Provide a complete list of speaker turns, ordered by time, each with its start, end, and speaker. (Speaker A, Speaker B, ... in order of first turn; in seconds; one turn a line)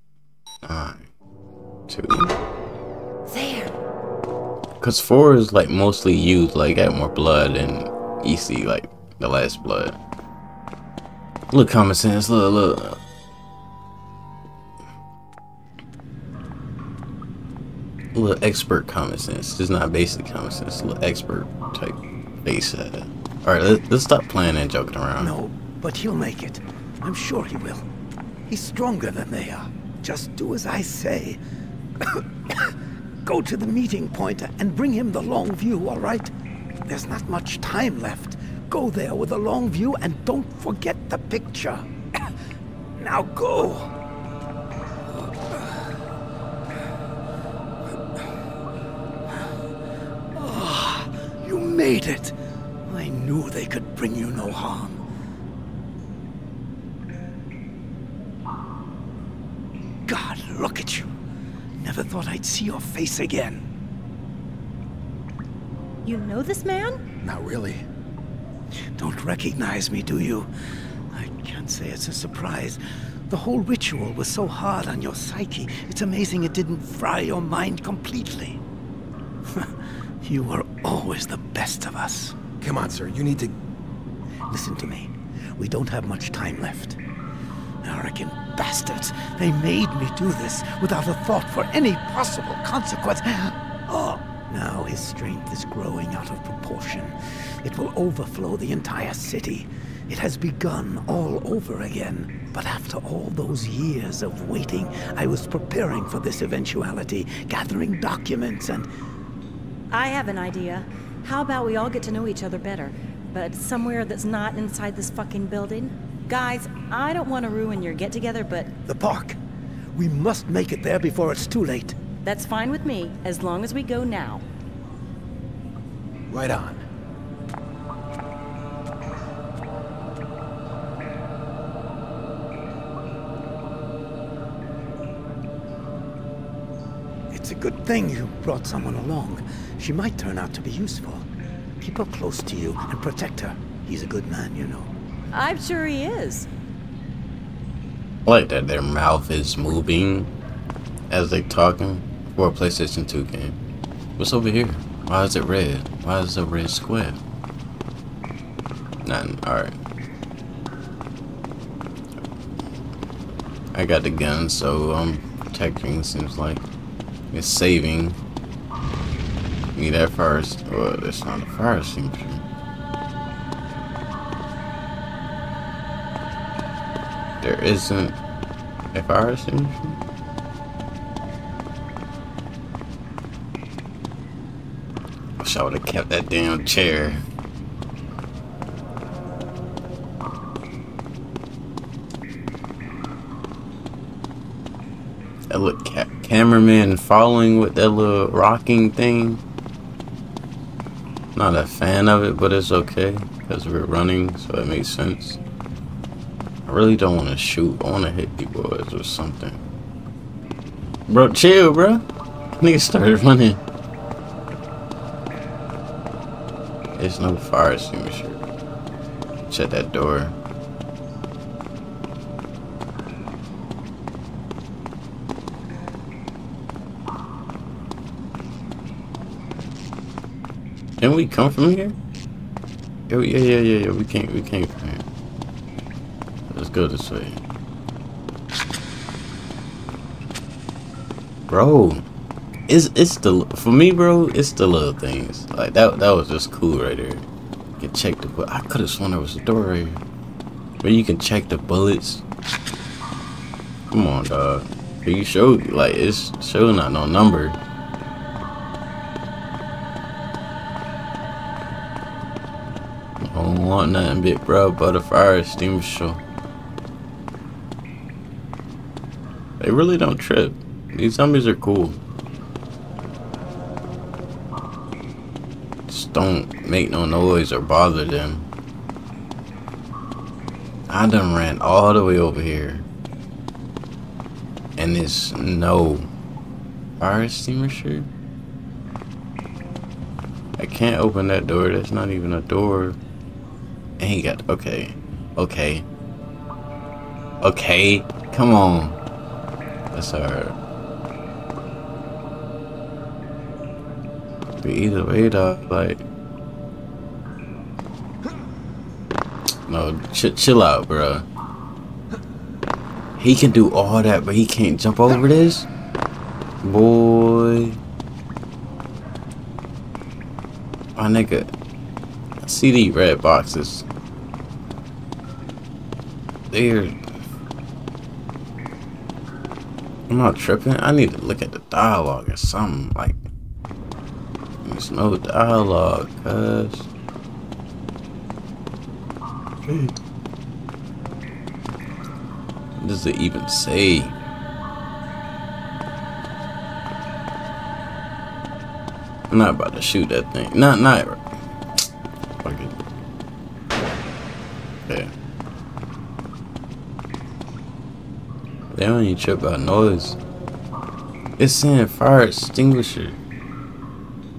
Speaker A: 0.6-1.1
Speaker A: 1.9-2.3
Speaker B: 3.3-3.8
Speaker A: 4.8-10.0
Speaker A: 11.5-13.0
Speaker A: 18.1-25.3
Speaker C: 25.2-27.9
Speaker C: 28.5-31.4
Speaker C: 32.0-36.3
Speaker C: 36.9-42.3
Speaker C: 43.0-43.9
Speaker C: 45.2-45.9
Speaker C: 50.3-52.4
Speaker C: 52.9-55.0
Speaker C: 60.1-61.1
Speaker C: 61.8-63.6
Speaker B: 66.0-67.0
Speaker D: 67.2-67.8
Speaker C: 69.0-70.5
Speaker C: 71.1-78.6
Speaker C: 79.5-82.4
Speaker D: 82.6-83.5
Speaker C: 84.5-87.0
Speaker C: 87.8-108.9
Speaker B: 109.9-118.7
Speaker C: 118.9-119.4
Speaker C: 120.0-122.0
Speaker B: 122.2-124.5
Speaker D: 126.3-126.8
Speaker C: 137.3-141.3
Speaker C: 141.8-144.9
Speaker B: 145.3-146.5
Speaker A: 148.3-150.3
Speaker A: 151.1-153.6
Speaker A: 154.2-157.2
Speaker A: 159.1-159.8
Speaker A: 163.7-166.6
Speaker A: 167.3-168.2
Speaker A: 169.8-172.4
Speaker A: 177.4-178.2
Speaker A: 178.9-180.0
Speaker A: 185.4-187.2
Speaker A: 195.5-199.4
Speaker A: 201.3-205.4
Speaker A: 206.7-209.6
Speaker A: 211.1-212.1
Speaker A: 212.6-213.6
Speaker A: 217.0-218.4
Speaker A: 219.5-220.3
Speaker A: 231.0-232.0
Speaker A: 233.1-235.1
Speaker A: 236.5-237.4
Speaker A: 241.5-242.1
Speaker A: 242.7-247.2
Speaker A: 247.8-250.0
Speaker A: 250.8-252.2
Speaker A: 253.9-257.6
Speaker A: 263.2-266.2
Speaker A: 269.6-272.0
Speaker A: 275.9-278.5
Speaker A: 280.9-282.9
Speaker A: 284.8-286.1
Speaker A: 287.0-288.1
Speaker A: 290.6-293.0
Speaker A: 294.0-295.9
Speaker A: 297.4-299.0
Speaker A: 299.9-300.6
Speaker A: 304.6-306.0
Speaker A: 309.7-311.3
Speaker A: 313.2-315.7
Speaker A: 316.6-317.8
Speaker A: 321.0-321.5
Speaker A: 322.4-323.9
Speaker A: 326.5-327.0
Speaker A: 330.1-333.2
Speaker A: 334.6-336.9
Speaker A: 339.7-339.9
Speaker A: 342.8-344.2
Speaker A: 349.3-351.2
Speaker A: 352.4-352.8
Speaker A: 354.9-355.1
Speaker A: 358.7-360.2
Speaker A: 361.4-363.2